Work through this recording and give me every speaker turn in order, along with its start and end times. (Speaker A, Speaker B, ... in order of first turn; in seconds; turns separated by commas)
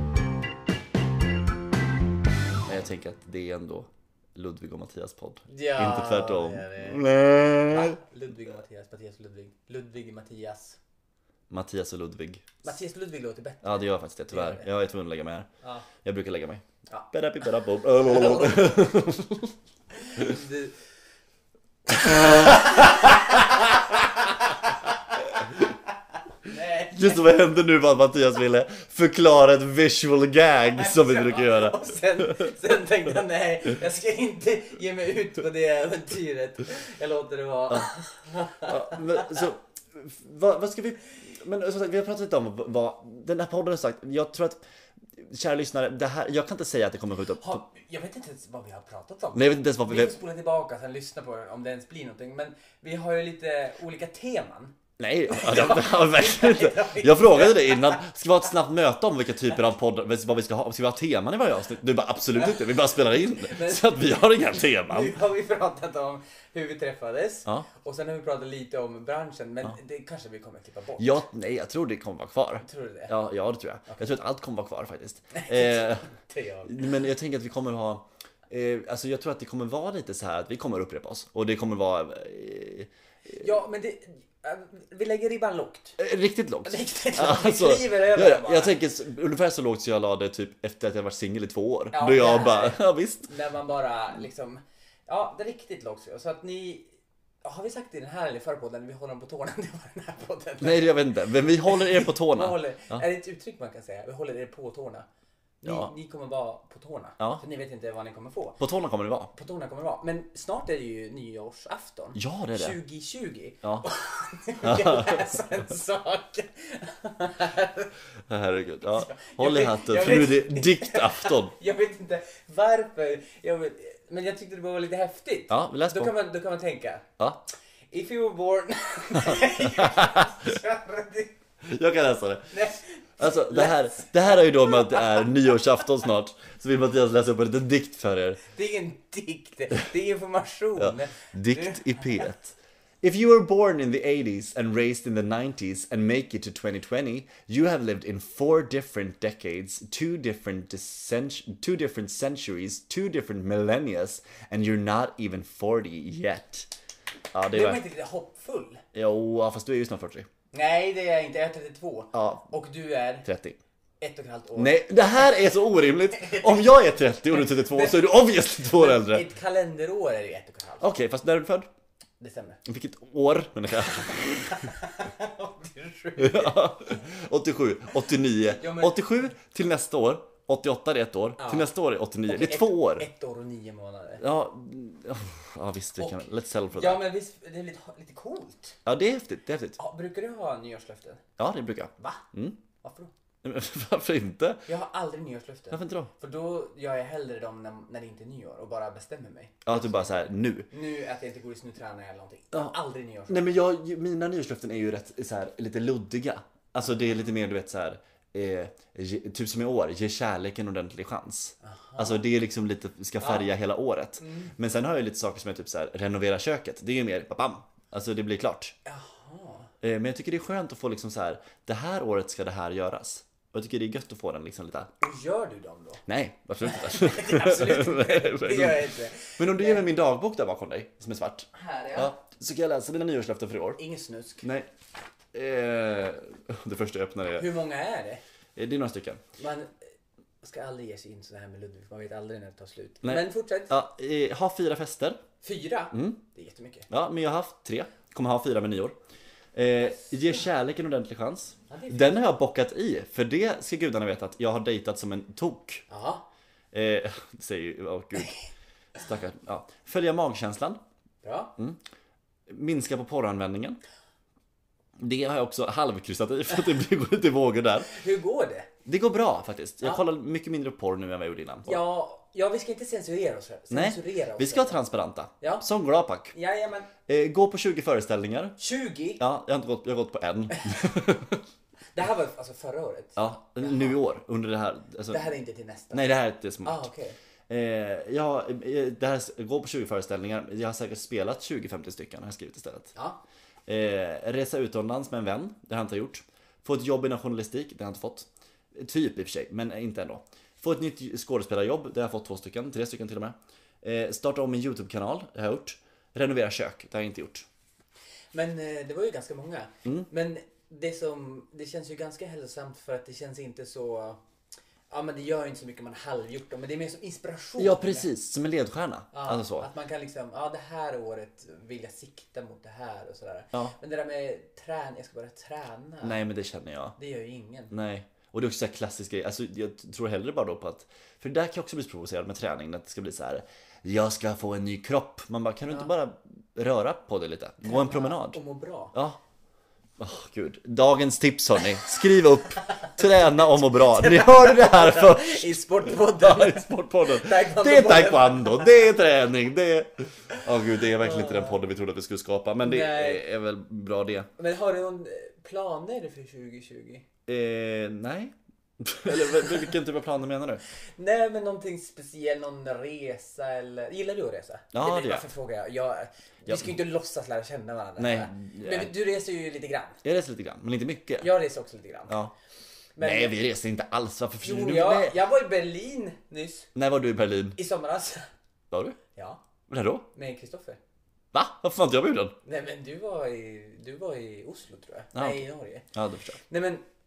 Speaker A: 2.6-8.0, Speaker B: 5.5-10.8, Speaker A: 11.5-12.6, Speaker B: 12.6-14.7, Speaker A: 13.6-15.5, Speaker B: 15.6-15.9, Speaker A: 16.0-19.5, Speaker B: 18.0-18.8, Speaker B: 20.0-20.8, Speaker A: 21.9-23.6, Speaker B: 22.0-25.7, Speaker B: 26.4-27.3, Speaker A: 26.9-32.5, Speaker B: 30.7-39.5, Speaker A: 38.6-44.6, Speaker A: 45.1-47.6, Speaker B: 47.4-54.8, Speaker A: 49.3-50.1, Speaker A: 55.0-65.2, Speaker B: 55.3-58.1, Speaker B: 62.4-71.2, Speaker A: 71.0-76.1, Speaker B: 72.6-73.1, Speaker B: 75.3-77.0, Speaker A: 76.7-83.4, Speaker B: 83.3-86.0, Speaker A: 86.0-93.3, Speaker B: 86.6-88.8, Speaker B: 91.9-96.9, Speaker B: 97.4-105.1, Speaker A: 100.6-103.0, Speaker B: 105.6-108.6, Speaker A: 105.6-105.9, Speaker A: 108.6-109.3, Speaker B: 109.3-117.9, Speaker A: 112.1-112.8, Speaker A: 114.6-115.4, Speaker A: 118.3-121.5, Speaker B: 118.9-127.1, Speaker A: 125.5-126.1, Speaker B: 127.9-131.3, Speaker A: 129.2-130.3, Speaker A: 131.6-132.6, Speaker B: 132.5-135.3, Speaker A: 133.2-138.4, Speaker B: 138.5-142.3, Speaker A: 140.8-156.7, Speaker A: 157.3-157.8, Speaker B: 157.5-158.8, Speaker A: 158.9-160.3, Speaker B: 160.5-163.3, Speaker A: 162.1-162.5, Speaker A: 163.2-163.6, Speaker B: 164.0-164.9, Speaker A: 164.6-169.3, Speaker B: 166.1-166.8, Speaker B: 167.3-170.9, Speaker A: 170.8-171.7, Speaker B: 172.2-172.6, Speaker A: 172.6-174.7, Speaker B: 174.0-176.7, Speaker A: 176.2-183.1, Speaker B: 178.5-179.1, Speaker B: 181.4-181.7, Speaker B: 182.2-184.2, Speaker A: 184.2-187.0, Speaker B: 186.0-188.8, Speaker A: 188.8-189.8, Speaker B: 189.8-191.2, Speaker A: 191.4-192.6, Speaker B: 192.0-192.3, Speaker B: 192.8-193.1, Speaker A: 193.4-194.6, Speaker B: 194.7-203.6, Speaker A: 195.7-196.1, Speaker A: 199.6-200.7, Speaker A: 203.3-218.7, Speaker B: 211.6-212.2, Speaker B: 213.2-213.5, Speaker B: 214.2-214.5, Speaker B: 218.8-219.7, Speaker A: 219.8-224.9, Speaker B: 225.0-226.0, Speaker A: 226.1-233.8, Speaker B: 226.6-229.8, Speaker B: 231.5-232.1, Speaker B: 233.8-234.4, Speaker A: 234.4-234.7, Speaker A: 235.3-237.5, Speaker B: 237.3-238.2, Speaker A: 238.6-239.2, Speaker B: 239.4-239.7, Speaker B: 240.4-243.7, Speaker A: 243.0-245.2, Speaker B: 245.4-246.9, Speaker A: 245.9-246.2, Speaker A: 246.9-248.9, Speaker A: 249.5-255.8, Speaker B: 251.7-252.2, Speaker B: 255.9-256.2, Speaker A: 256.7-258.4, Speaker A: 258.9-260.8, Speaker B: 261.2-261.5, Speaker A: 262.5-263.8, Speaker A: 265.0-267.9, Speaker B: 267.8-268.7, Speaker A: 268.9-271.8, Speaker B: 271.6-274.8, Speaker A: 273.7-276.3, Speaker B: 276.3-276.9, Speaker A: 277.1-278.6, Speaker B: 278.6-279.2, Speaker A: 279.2-281.4, Speaker B: 280.5-280.9, Speaker B: 281.9-284.0, Speaker A: 283.2-285.3, Speaker B: 285.1-287.1, Speaker A: 285.9-286.9, Speaker A: 287.5-292.9, Speaker B: 292.9-293.2, Speaker A: 293.7-307.4, Speaker B: 308.3-314.2, Speaker B: 314.9-318.1, Speaker A: 317.6-319.7, Speaker B: 319.1-326.2, Speaker A: 326.0-326.9, Speaker B: 327.0-327.7, Speaker A: 327.7-338.4, Speaker B: 337.6-338.9, Speaker A: 338.9-339.2, Speaker A: 340.0-354.3, Speaker B: 342.6-348.7, Speaker B: 350.4-351.6, Speaker B: 352.6-353.2, Speaker B: 354.4-357.0, Speaker A: 357.3-360.6, Speaker B: 359.1-359.6, Speaker B: 361.0-370.0, Speaker A: 364.7-365.3, Speaker A: 366.4-366.7, Speaker A: 368.0-368.9, Speaker A: 370.0-371.3, Speaker B: 371.2-372.2, Speaker B: 373.0-373.4, Speaker A: 373.0-375.2, Speaker B: 374.4-376.7, Speaker A: 376.7-377.6, Speaker B: 377.6-378.3, Speaker A: 378.7-379.0, Speaker B: 379.1-379.4, Speaker A: 379.7-380.1, Speaker B: 380.1-380.8, Speaker A: 381.3-382.4, Speaker B: 382.4-385.9, Speaker A: 385.1-386.4, Speaker B: 386.4-386.8